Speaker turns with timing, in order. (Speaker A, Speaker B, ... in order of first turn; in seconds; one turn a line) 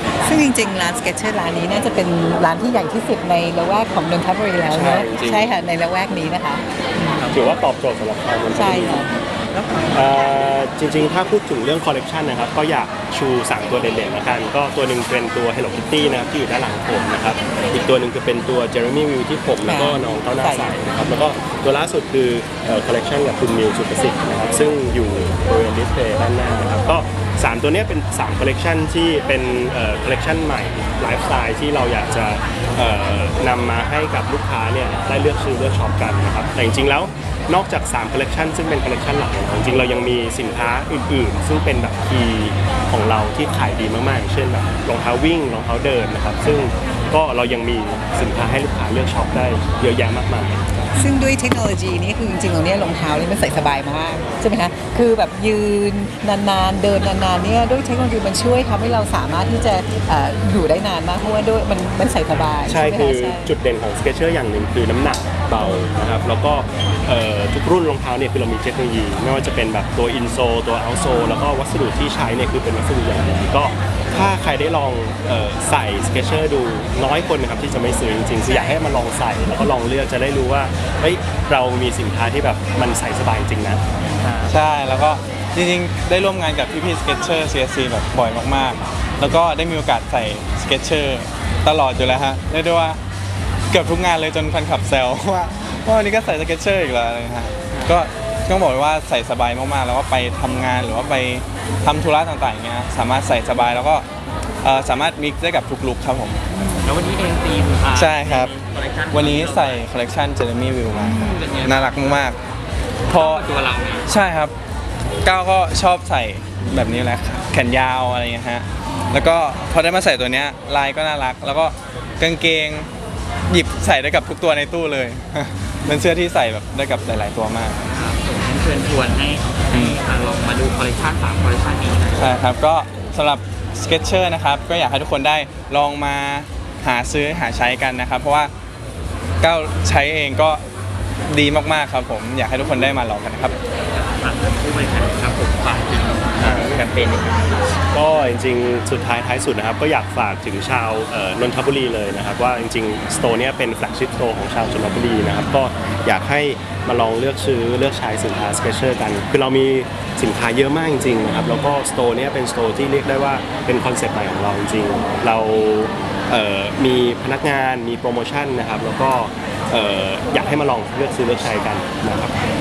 Speaker A: 0.2-7.2
Speaker B: 4.7-5.5
Speaker B: 7.3-9.1
Speaker A: 8.5-9.1
Speaker C: 9.5-9.9
Speaker B: 9.9-50.6
Speaker A: 19.6-20.8
Speaker A: 51.0-63.5
Speaker B: 62.7-83.8
Speaker A: 65.6-65.9
Speaker A: 78.4-78.8
Speaker C: 84.0-84.5
Speaker D: 84.5-93.0
Speaker D: 93.7-104.1
Speaker D: 104.6-106.4
Speaker C: 106.5-109.8
Speaker D: 107.9-108.5
Speaker D: 109.1-112.4
Speaker C: 110.9-112.1
Speaker C: 113.1-114.1
Speaker D: 113.1-113.5
Speaker D: 114.0-114.5
Speaker D: 115.2-122.9
Speaker D: 123.5-127.8
Speaker C: 127.9-132.3
Speaker D: 129.7-130.0
Speaker D: 132.1-138.5
Speaker D: 139.4-140.6
Speaker D: 141.3-143.6
Speaker C: 143.9-147.5
Speaker B: 146.4-146.8
Speaker B: 147.9-172.4